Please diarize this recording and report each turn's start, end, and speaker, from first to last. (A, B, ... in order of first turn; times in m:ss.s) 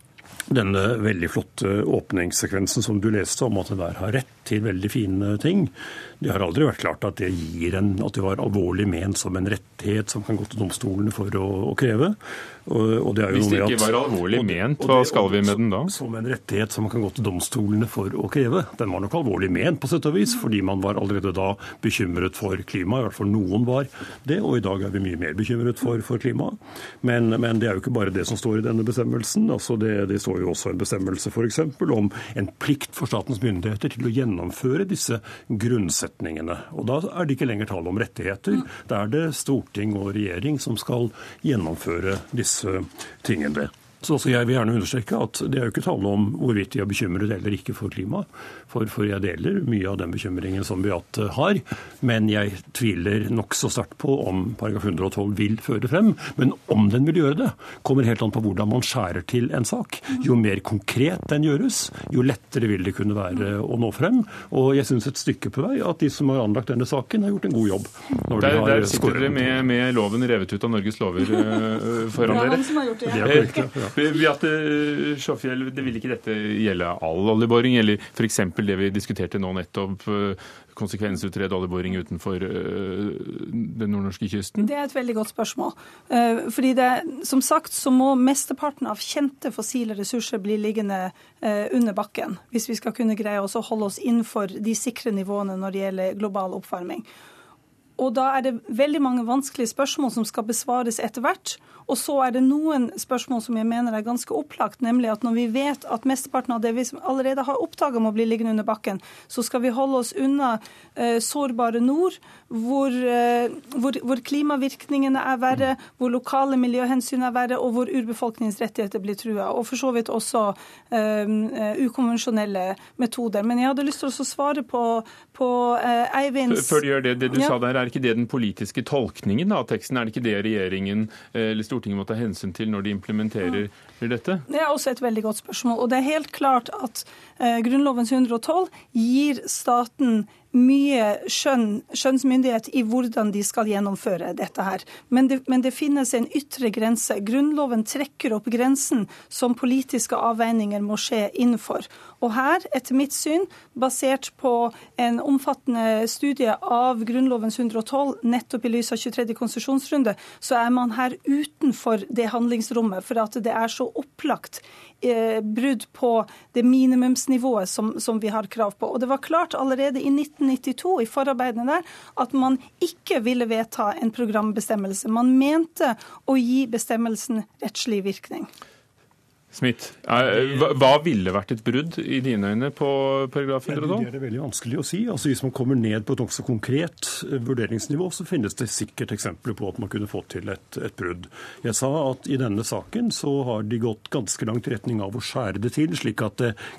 0:00.5-1:09.6 A
0:13.3-0:15.9 B
1:08.4-1:24.7 B
1:12.2-1:13.7 C
1:13.0-1:13.9 A
1:24.6-1:37.1 C
1:38.0-2:07.5 C
2:06.5-2:14.4 B
2:14.5-2:58.5 C
2:59.5-3:04.1 B
3:03.6-3:16.6 A